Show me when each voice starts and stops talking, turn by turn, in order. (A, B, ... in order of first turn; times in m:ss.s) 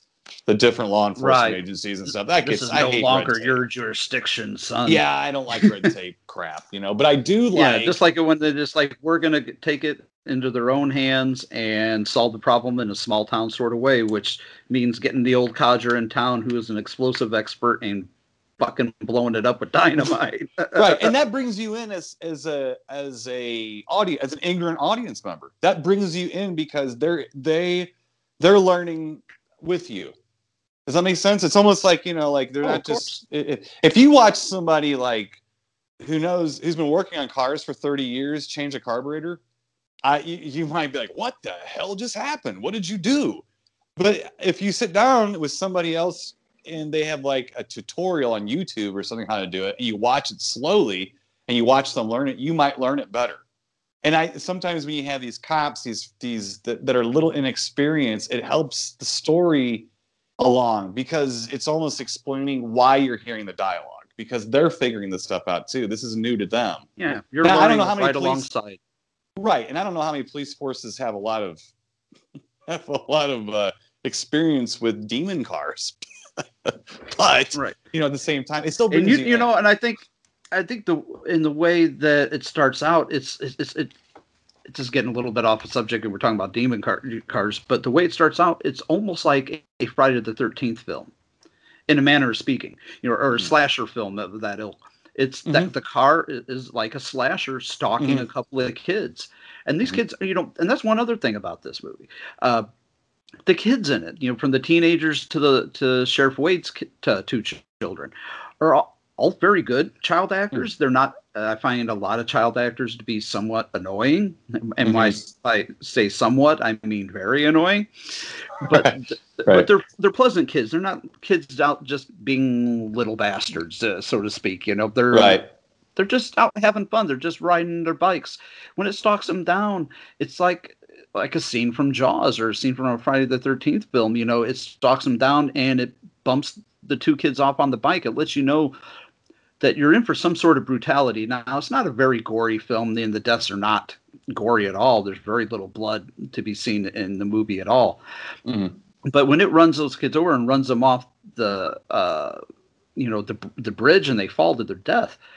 0:00.4-0:03.6 A
0:01.2-0:05.0 B
0:04.8-0:08.0 A
0:05.6-0:05.9 B
0:07.5-0:21.1 B
0:20.7-0:30.1 A
0:30.8-0:35.4 A
0:32.6-0:33.2 B
0:36.0-0:39.4 A
0:40.0-0:43.4 A
0:44.0-0:53.4 A
0:54.0-0:59.9 A
1:00.4-1:06.8 A
1:07.0-1:08.8 B
1:07.4-1:08.5 A
1:09.4-1:11.6 A
1:12.6-1:16.0 A
1:16.6-1:19.5 A
1:18.9-1:23.9 B
1:24.7-1:31.1 B
1:31.9-1:42.7 B
1:35.4-1:35.7 A
1:38.0-1:38.2 A
1:43.4-1:57.9 B
1:54.8-1:55.2 A
1:58.6-2:05.4 B
1:58.7-1:59.7 A
2:05.1-2:05.4 A
2:06.0-2:18.8 B
2:19.6-2:28.0 B
2:28.4-2:28.7 A
2:29.0-2:32.4 B
2:33.0-2:35.2 B